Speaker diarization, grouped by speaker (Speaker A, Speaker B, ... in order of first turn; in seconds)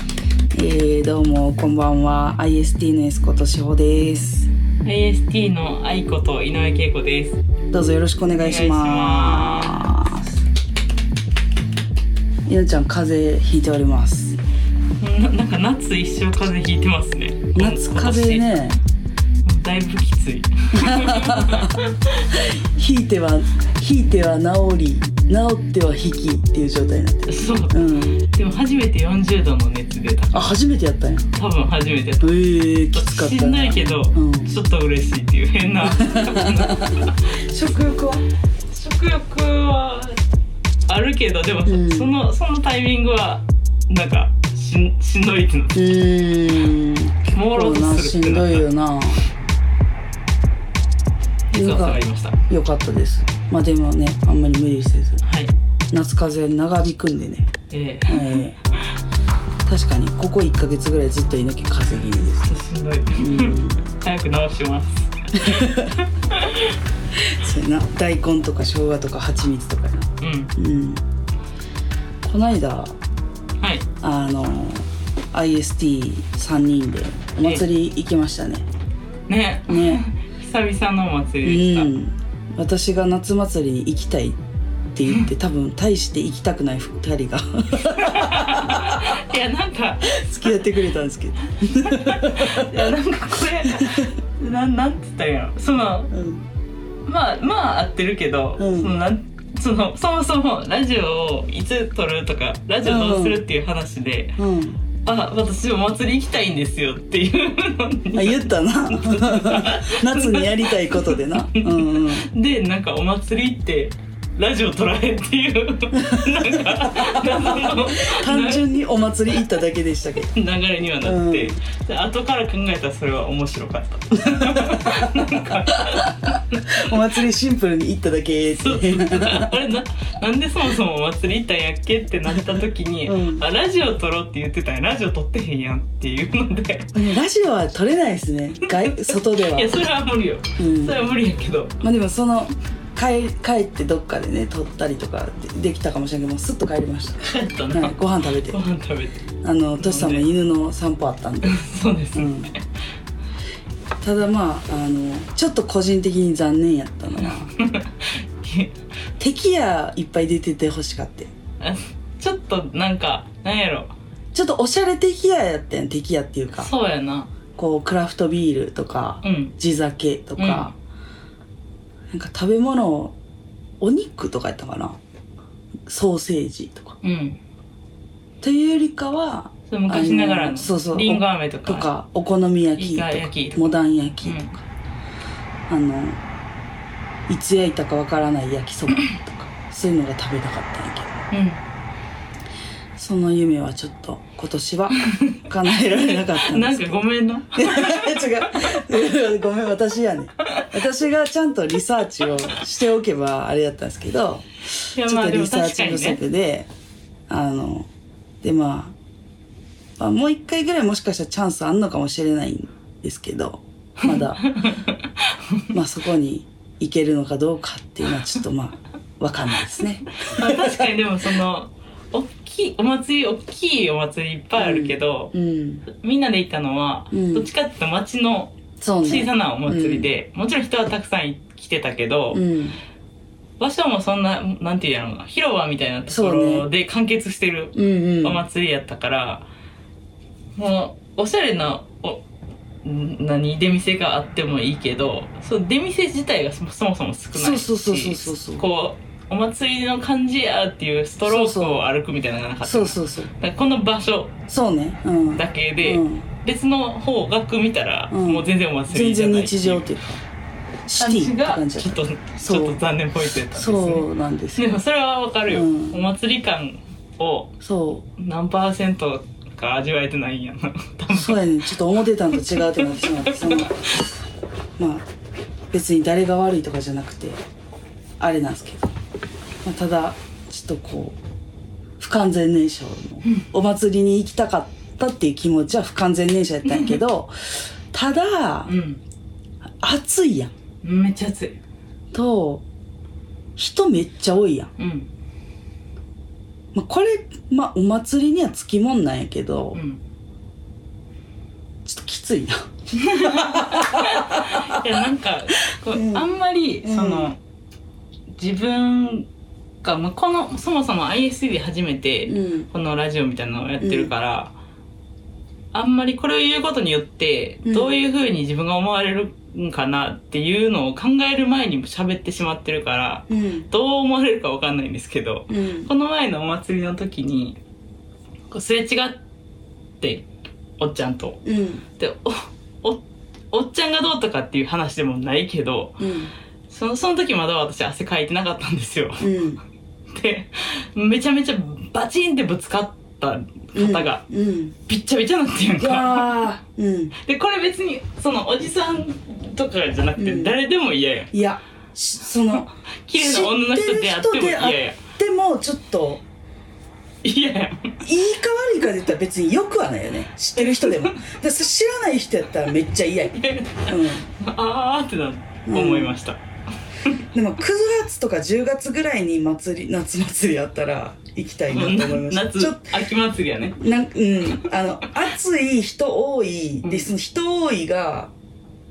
Speaker A: 0.5-4.5, 7.7-10.3, 12.5-14.4, 17.5-18.8, 20.8-21.8, 22.3-28.2, 30.3-31.3, 32.2-34.5, 35.9-38.2, 41.6-42.1, 45.7-49.2, 51.5-55.2, 55.9-57.5, 58.0-58.6, 59.6-62.5, 63.1-63.9, 65.4-66.0, 67.2-71.0, 72.2-73.0, 74.0-78.6, 79.7-80.0, 81.4-84.4, 84.9-89.2, 90.1-92.9, 93.8-94.1, 96.1-96.4, 98.6-99.0, 102.8-103.4, 104.4-104.8, 108.1-112.3, 115.9-120.3, 121.0-121.6, 124.2-129.5, 133.1-133.4, 136.9-139.8, 140.6-141.2, 141.8-148.6, 149.4-152.5, 154.0-157.5, 159.2-161.3, 164.3-166.7, 167.6-170.7, 172.1-173.1, 173.8-175.0, 175.9-177.0, 178.4-184.6, 185.7-186.2, 187.3-191.2, 192.9-206.7, 207.3-207.9, 208.4-208.9, 210.0-214.5, 215.7-220.9, 224.6-225.8, 227.1-227.5, 228.8-230.1, 232.3-232.8, 236.1-236.7, 237.7-238.4, 247.3-248.7, 251.2-251.8, 252.6-253.3, 254.5-256.3, 258.1-260.2, 260.9-262.8, 263.5-264.7, 265.5-266.1, 267.6-268.0, 271.1-273.9, 274.8-275.1, 275.7-277.4, 278.2-278.9, 279.6-281.2, 282.0-288.7, 289.8-290.5, 292.1-292.6, 293.6-294.7, 296.7-299.8, 301.8-304.8, 305.9-306.3, 306.8-307.3, 312.3-312.7, 313.8-314.1, 317.6-318.0, 323.3-323.7, 325.5-325.9, 331.4-331.8, 336.0-336.3, 339.2-339.6, 343.7-344.8, 345.8-347.1, 350.2-350.6, 351.3-356.2, 358.0-364.3, 365.6-366.1, 367.3-372.9, 373.8-378.3
Speaker B: 4.8-7.4, 8.4-10.0, 15.0-18.5, 19.4-22.2, 27.3-30.6, 31.3-37.2, 38.7-40.2, 40.9-46.0, 47.3-48.7, 51.5-52.4, 55.2-55.5, 57.7-58.4, 62.4-65.7, 66.2-66.8, 70.2-70.5, 73.6-73.8, 79.3-81.9, 87.8-90.6, 91.6-96.1, 97.0-104.4, 105.0-118.7, 120.3-127.1, 128.6-137.1, 138.6-141.8, 147.2-149.2, 149.8-150.3, 151.4-152.6, 157.2-158.8, 161.6-163.9, 166.5-167.3, 169.2-169.5, 170.4-170.7, 177.0-177.4, 179.7-181.9, 182.8-184.5, 191.3-191.6, 195.0-198.9, 204.9-206.2, 214.0-215.7, 220.2-225.3, 225.9-232.4, 233.6-239.5, 240.6-242.2, 242.8-254.3, 255.3-259.9, 261.0-267.5, 268.2-271.7, 272.3-273.7, 286.6-287.0, 288.6-289.0, 290.8-291.6, 294.8-295.1, 299.7-300.0, 302.9-307.4, 308.3-309.3, 309.8-314.5, 315.7-327.6, 328.5-329.2, 330.0-330.3, 330.8-331.4, 332.0-336.1, 336.7-339.4, 340.1-344.2, 344.9-346.5, 347.2-351.3, 352.5-355.0, 357.2-358.0, 360.6-361.2, 363.3-366.4, 371.7-373.8, 376.8-377.1